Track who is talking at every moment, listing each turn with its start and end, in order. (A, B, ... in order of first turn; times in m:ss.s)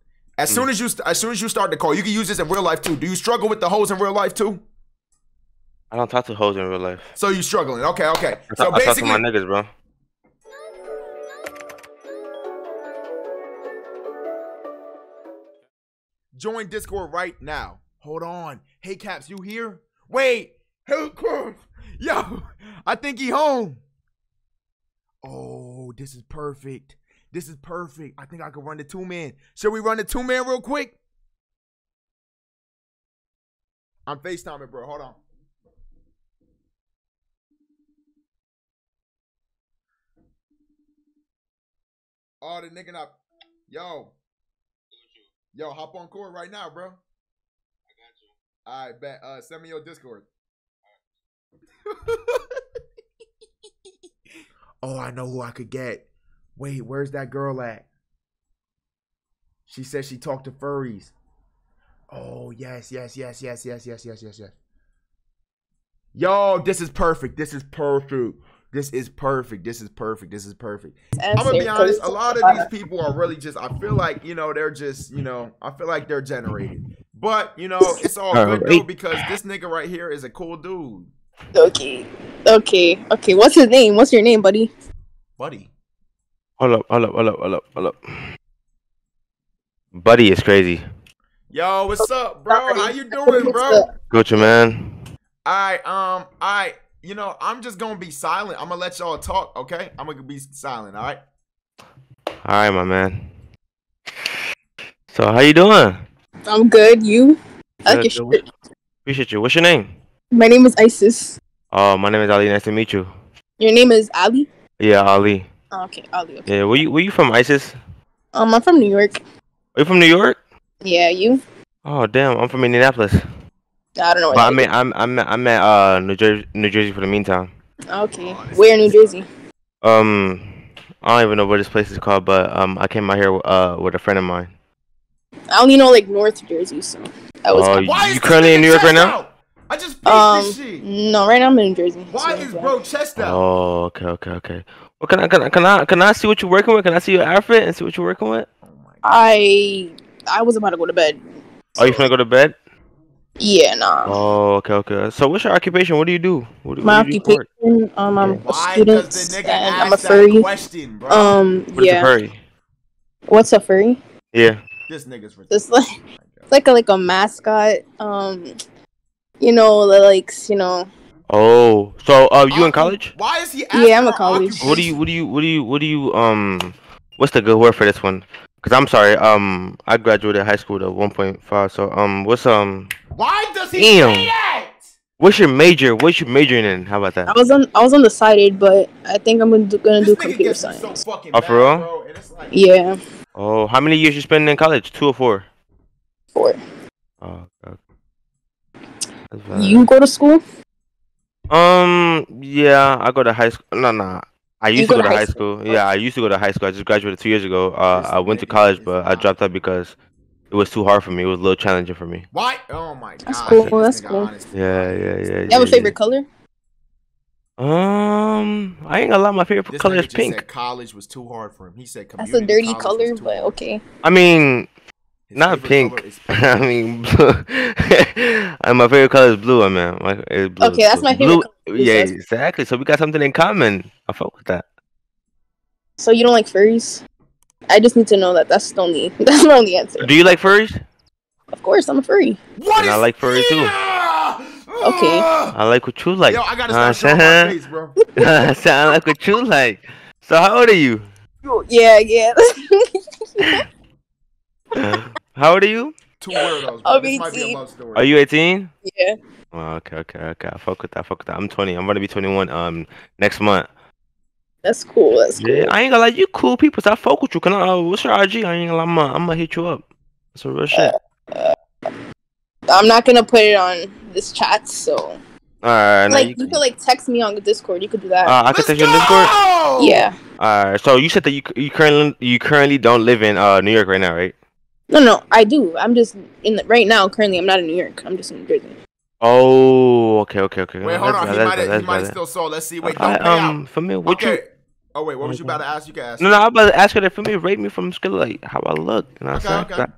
0:00.4-0:04.6 A
0:05.9-0:07.1 B
0:07.1-0:09.2 A
0:08.5-0:09.7 B
0:16.3-0:23.8 A
0:25.2-0:31.0 A
0:34.1-0:35.2 A
0:42.4-0:44.1 A
0:45.5-0:47.0 A
0:48.6-0:50.3 A
0:51.9-0:52.4 A
0:54.8-0:57.9 A
0:59.7-1:01.1 A
1:02.1-1:04.5 A
1:06.1-1:21.1 A
1:11.2-1:12.6 C
1:18.3-1:18.9 B
1:21.5-1:24.7 C
1:25.4-1:25.7 A
1:26.6-1:28.0 B
1:29.9-1:30.8 B
1:31.5-1:33.8 A
1:32.5-1:33.8 C
1:34.1-1:35.0 B
1:35.4-1:41.2 A
1:42.4-1:43.2 B
1:45.1-1:46.0 B
1:46.4-1:48.4 C
1:47.9-1:48.4 B
1:49.0-1:49.9 B
1:50.3-1:51.4 C
1:51.7-1:53.1 B
1:53.6-1:54.5 C
1:54.8-1:55.5 B
1:55.7-1:56.8 C
1:56.5-1:57.8 B
1:58.3-1:59.2 C
1:59.7-2:00.4 B
2:00.8-2:01.4 C
2:01.8-2:03.2 B
2:04.0-2:04.7 C
2:04.3-2:07.5 B
2:07.9-2:09.2 C
2:08.1-2:09.2 A
2:09.8-2:14.5 B
2:15.5-2:17.9 C
2:17.5-2:19.2 B
2:17.8-2:20.8 A
2:20.0-2:22.8 C
2:22.1-2:23.4 A
2:23.2-2:28.5 B
2:28.6-2:29.3 A
2:29.0-2:31.2 C
2:31.8-2:32.1 A
2:31.8-2:32.5 B
2:33.4-2:34.2 C
2:34.0-2:37.5 B
2:36.8-2:40.5 C
2:38.4-2:41.4 A
2:41.1-2:42.1 C
2:41.7-2:42.4 B
2:43.3-2:44.0 C
2:44.3-2:44.6 B
2:44.9-2:45.6 A
2:45.5-2:45.8 C
2:46.2-2:46.5 A
2:46.5-2:48.5 C
2:49.4-2:50.9 C
2:51.3-2:53.1 B
2:52.5-2:55.0 A
2:53.7-2:54.8 C
2:54.6-3:02.9 B
3:03.1-3:04.9 A
3:03.8-3:04.3 B
3:05.2-3:07.3 B
3:07.3-3:11.0 C
3:10.0-3:12.6 A
3:11.3-3:11.9 B
3:12.5-3:12.9 C
3:13.4-3:15.5 B
3:17.2-3:17.8 B
3:19.3-3:19.9 B
3:19.5-3:20.4 C
3:21.5-3:29.9 B
3:24.7-3:25.8 C
3:27.9-3:29.3 A
3:30.5-3:32.2 B
3:32.3-3:35.9 A
3:33.2-3:34.3 C
3:33.4-3:33.7 B
3:34.5-3:35.9 B
3:35.5-3:36.2 C
3:37.6-3:40.4 B
3:39.7-3:43.6 A
3:42.2-3:43.8 C
3:44.0-3:44.7 B
3:45.3-3:46.3 A
3:45.4-3:54.6 B
3:50.6-3:52.1 C
3:56.0-3:57.0 C
3:57.7-4:00.5 C
4:00.0-4:00.8 B
4:01.5-4:02.4 C
4:02.6-4:05.5 A
4:02.8-4:03.7 B
4:04.8-4:05.3 C
4:05.5-4:07.5 B
4:06.3-4:07.9 A
4:08.2-4:08.4 C
4:08.2-4:11.1 B
4:11.4-4:13.6 C
4:14.7-4:15.9 B
4:16.2-4:18.1 A
4:16.8-4:17.6 C
4:17.9-4:18.7 B
4:18.8-4:19.1 C
4:19.5-4:23.7 B
4:24.6-4:25.7 C
4:25.4-4:30.9 B
4:30.7-4:31.5 C
4:32.7-4:35.2 C
4:35.6-4:36.6 B
4:36.1-4:38.4 C
4:38.2-4:39.3 B
4:38.5-4:40.1 A
4:39.8-4:40.1 C
4:40.4-4:44.3 B
4:44.9-4:48.8 C
4:49.2-4:52.2 B
4:50.8-4:56.4 A
4:52.8-4:54.4 B
4:55.2-4:55.6 B
4:56.2-4:59.9 B
4:59.3-4:59.9 A